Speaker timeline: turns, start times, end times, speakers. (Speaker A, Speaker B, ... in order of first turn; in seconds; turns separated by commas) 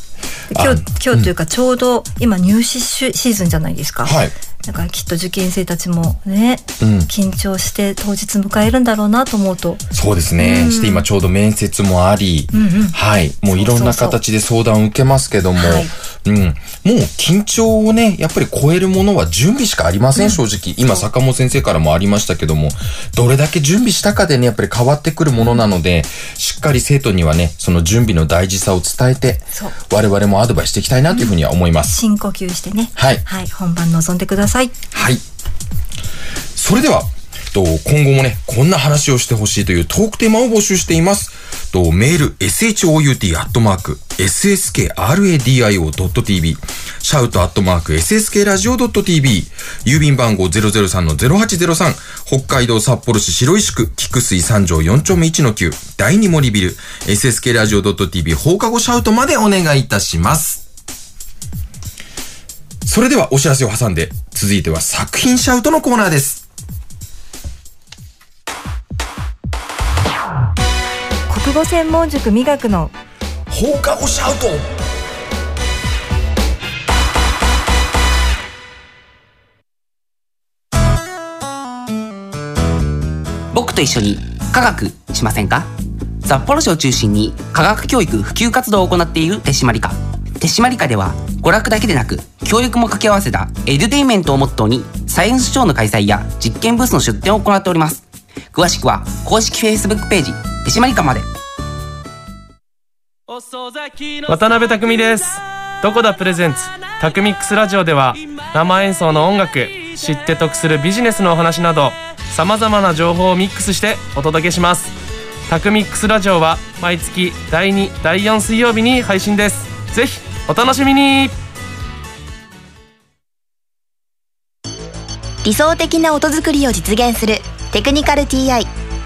Speaker A: 0.5-9.8, Speaker B: 0.5-1.3, Speaker B: 4.0-4.3, Speaker B: 6.8-7.1, Speaker B: 9.9-32.0, Speaker A: 10.4-11.1, Speaker A: 12.5-13.0, Speaker A: 13.5-14.2, Speaker A: 15.6-15.9, Speaker A: 20.2-21.0, Speaker A: 31.9-34.7, Speaker B: 33.0-33.2, Speaker B: 34.9-35.2, Speaker B: 36.5-60.6, Speaker B: 62.9-66.4, Speaker A: 71.3-72.9, Speaker B: 73.5-74.8, Speaker C: 83.5-85.7, Speaker C: 86.2-101.3, Speaker D: 103.3-114.9, Speaker D: 115.5-121.3, Speaker E: 125.4-128.7